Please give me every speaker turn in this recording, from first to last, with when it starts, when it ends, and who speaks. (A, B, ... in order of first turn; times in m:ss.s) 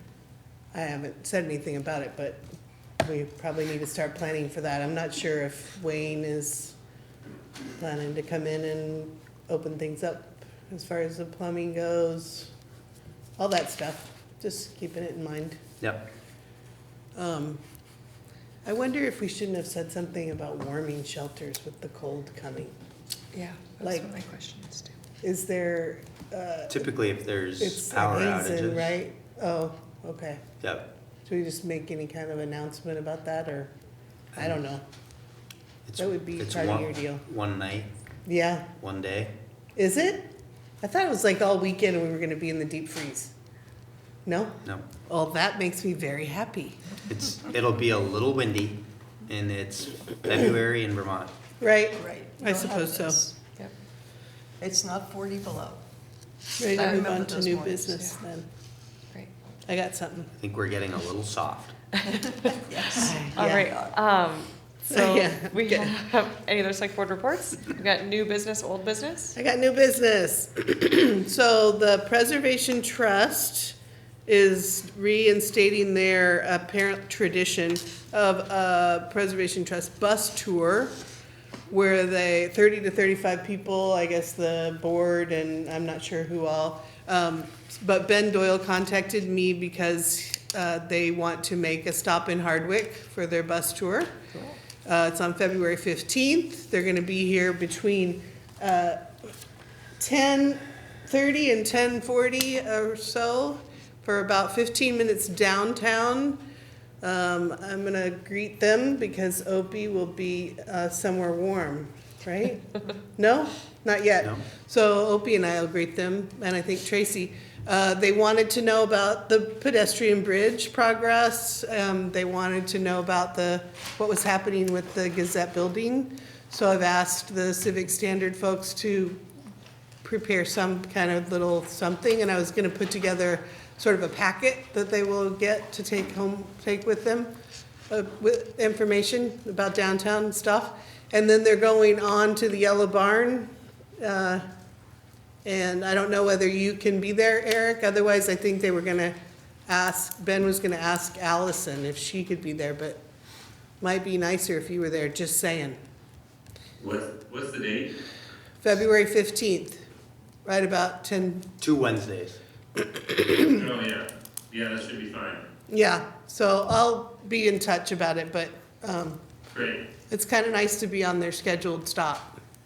0:00.7-0:02.4 A
0:03.0-0:06.8 A
0:07.8-0:12.5 A
0:13.4-0:15.6 A
0:15.8-0:16.1 B
0:17.2-0:17.6 A
0:18.6-0:22.7 A
0:23.3-0:24.9 C
0:23.8-0:24.1 A
0:25.2-0:26.8 A
0:26.7-0:28.9 B
0:27.6-0:30.4 A
0:30.6-0:30.9 B
0:31.2-0:33.7 A
0:34.4-0:34.8 A
0:35.9-0:37.9 B
0:36.0-0:37.2 A
0:38.3-0:38.7 A
0:38.8-0:39.4 B
0:39.8-0:43.3 A
0:44.3-0:46.8 A
0:47.1-0:51.3 B
0:51.6-0:53.2 A
0:52.0-0:53.4 D
0:54.6-0:55.8 D
0:56.6-0:58.5 A
0:56.6-0:58.1 D
0:59.7-1:00.3 A
1:00.4-1:01.8 B
1:02.0-1:02.6 C
1:02.5-1:03.9 D
1:02.9-1:03.7 A
1:03.3-1:09.4 C
1:04.9-1:05.9 A
1:09.4-1:21.0 A
1:21.7-1:34.2 A
1:34.8-1:39.1 A
1:40.0-1:46.4 A
1:47.0-2:09.2 A
1:54.2-1:54.5 B
2:10.0-2:17.3 A
2:17.9-2:24.4 A
2:25.4-2:29.2 A
2:29.7-2:33.0 A
2:33.8-2:35.8 A
2:36.8-2:38.0 E
2:38.6-2:39.8 A
2:40.4-2:41.5 A
2:41.6-2:42.4 B
2:43.0-2:43.4 A
2:43.3-2:45.5 E
2:45.7-2:49.2 A
2:49.5-2:49.9 E
2:50.1-2:52.4 A